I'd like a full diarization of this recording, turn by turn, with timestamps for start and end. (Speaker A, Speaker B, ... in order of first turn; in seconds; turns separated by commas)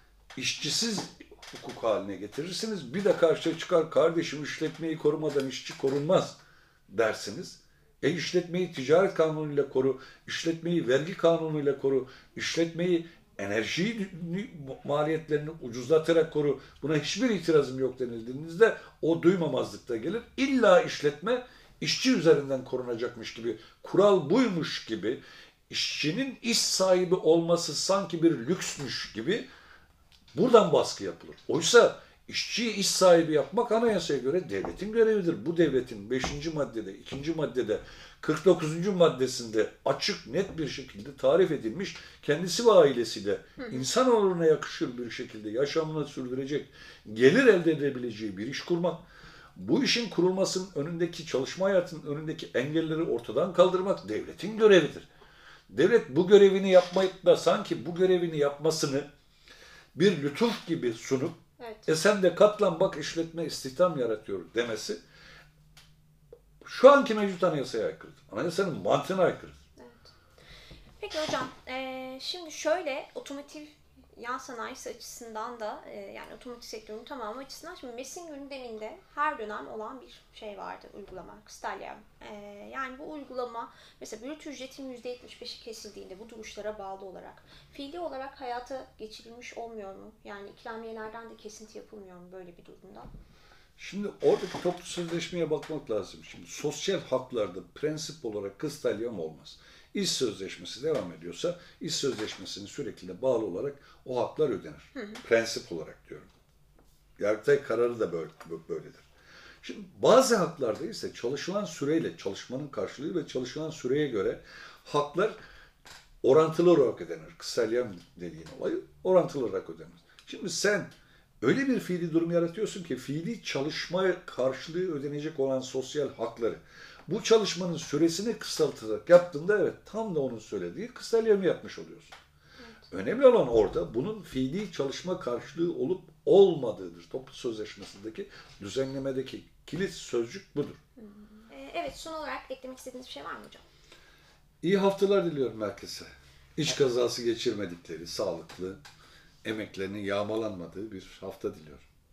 Speaker A: 0.3-29.5, Speaker A: 30.3-49.0, Speaker A: 49.5-55.1, Speaker A: 55.7-59.1, Speaker A: 59.9-65.0, Speaker B: 61.6-61.9, Speaker A: 66.6-69.6, Speaker B: 69.8-70.1, Speaker B: 71.0-93.1, Speaker A: 93.8-106.3, Speaker A: 107.2-109.0, Speaker A: 109.6-115.4, Speaker A: 116.2-132.2, Speaker A: 132.9-140.8, Speaker B: 141.4-143.6, Speaker A: 144.6-148.8, Speaker A: 149.4-151.8